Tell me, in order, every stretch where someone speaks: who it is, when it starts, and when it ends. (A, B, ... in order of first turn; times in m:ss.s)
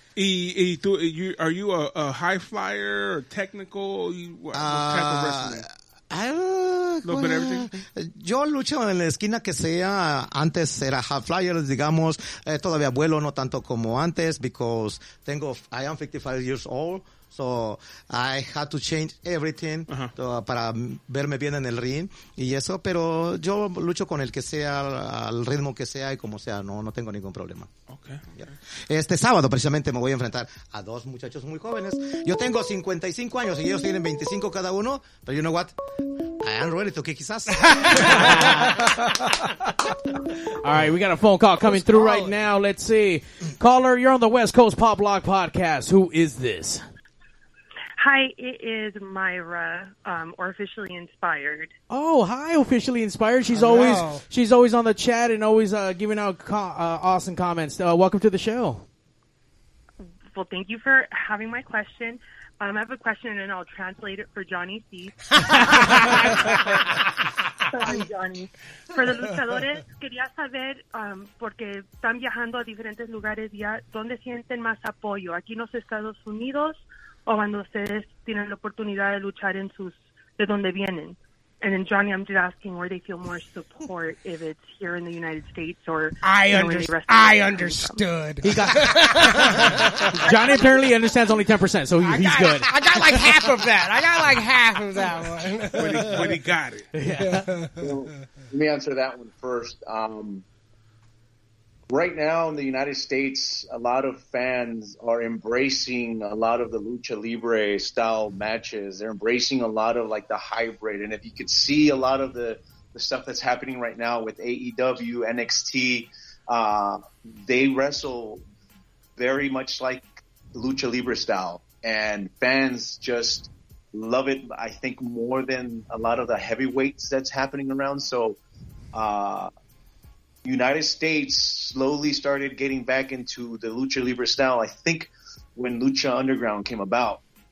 0:00.2-0:05.6 A
0:04.5-0:27.7 B
0:07.0-0:07.7 A
0:27.9-0:28.5 A
0:28.3-0:35.8 B
0:36.4-0:38.5 B
0:37.6-0:38.0 C
0:38.0-0:38.8 D
0:40.5-0:46.8 D
0:41.6-0:42.4 C
0:48.0-0:51.7 E
0:51.9-0:58.8 D
0:53.5-0:54.2 C
1:00.3-1:07.0 E
1:05.5-1:06.8 C
1:07.7-1:28.0 E
1:26.2-1:30.6 C
1:28.4-1:29.5 D
1:30.1-1:33.2 D
1:30.2-1:30.8 E
1:32.0-1:36.4 C
1:35.7-1:36.9 A
1:36.9-1:37.5 D
1:37.1-1:37.9 C
1:37.8-1:40.4 F
1:41.9-1:58.4 F
1:59.2-2:08.4 F
2:08.9-2:09.5 F
2:10.4-2:17.2 F